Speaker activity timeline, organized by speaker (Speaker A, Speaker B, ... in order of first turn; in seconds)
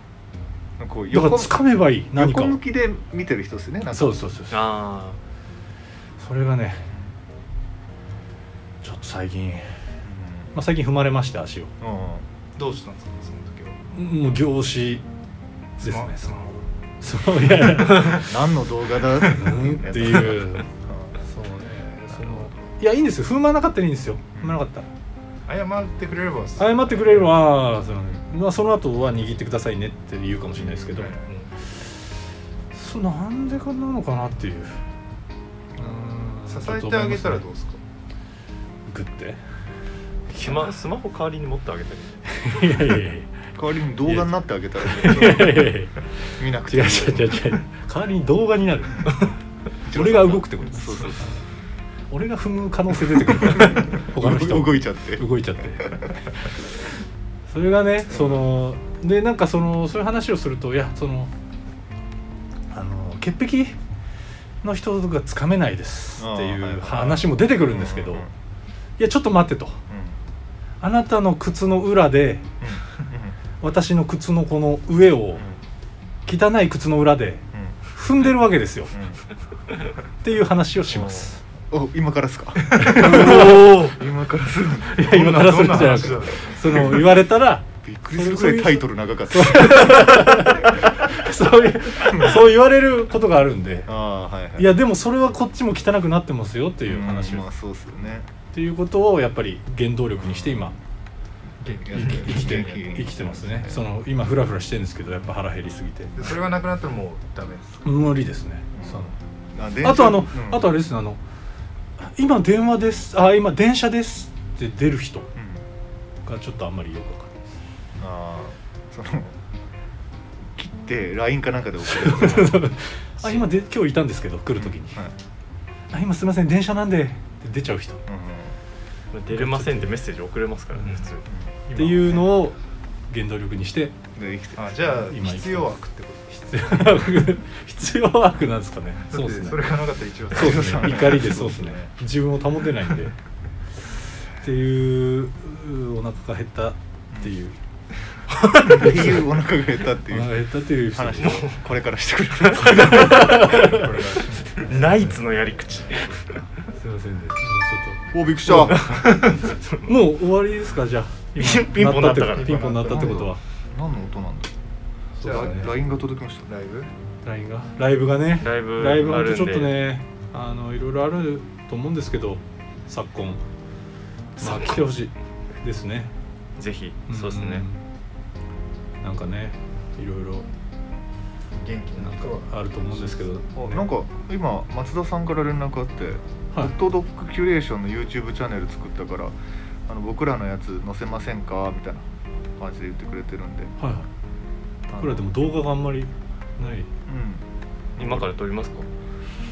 Speaker A: 0.8-4.3, 10.0-10.5, 11.8-12.2, 17.9-21.2, 24.4-24.6, 30.6-31.1, 43.5-45.8, 46.4-47.5, 49.9-51.3, 53.4-55.2, 58.1-58.4, 66.2-68.3, 69.9-70.2, 72.6-73.4, 78.9-79.2, 80.9-85.1, 87.8-90.2, 93.9-94.7, 96.9-98.3, 100.4-100.7, 101.9-103.8, 108.8-110.7, 115.3-115.6, 118.0-119.3, 120.5-122.6, 124.6-125.2, 128.1-128.6, 134.2-134.7, 140.3-141.4, 148.7-153.3, 158.1-159.0, 162.8-164.5, 165.2-166.5, 183.6-189.3, 189.9-192.1, 192.6-193.8, 194.9-195.3, 197.1-197.4
Speaker B: 1.1-2.6, 3.9-4.7, 6.2-6.8, 8.8-9.7, 10.5-11.7, 13.9-15.0, 15.8-16.4, 17.0-18.4, 19.2-24.9, 26.6-31.2, 32.7-34.8, 35.8-37.4, 38.9-39.4, 42.4-43.3, 44.1-45.9, 46.7-49.2, 49.9-51.4, 52.1-56.2, 57.5-61.3, 62.7-63.8, 64.6-68.3, 69.0-69.8, 70.8-72.5, 73.6-75.5, 76.3-79.0, 80.2-81.4, 82.8-83.4, 84.9-93.9, 94.6-97.5, 98.5-100.8, 101.9-106.2, 107.8-109.2, 109.8-111.2, 112.0-115.3, 116.2-117.4, 121.9-125.0, 125.9-128.0, 129.3-130.0, 130.7-131.1, 131.7-132.6, 133.1-133.9, 135.1-135.7, 136.4-139.8, 140.3-143.2, 144.2-147.6, 148.8-149.2, 150.1-151.5, 152.8-154.0, 156.7-158.9, 159.8-163.4, 165.2-165.7, 167.2-173.4, 174.4-176.1, 177.1-177.8, 179.0-180.5, 182.0-183.9, 193.8-194.1, 194.9-196.9
Speaker C: 4.5-5.2, 40.3-42.1, 83.0-84.0, 129.1-132.1, 148.3-149.1, 151.2-151.6, 152.5-153.6, 154.6-156.5, 158.7-159.9, 161.4-162.6, 168.4-169.9, 174.4-174.9, 176.6-177.7, 198.0-198.9
Speaker D: 12.6-13.8, 15.8-16.7, 25.5-27.4, 30.9-31.5, 36.5-37.8, 82.7-83.2, 85.0-87.1, 101.6-102.6, 106.2-107.9, 131.8-132.2, 134.6-136.7, 139.0-141.9, 153.1-154.9, 162.3-163.3, 165.2-165.9, 166.5-166.9, 181.6-183.3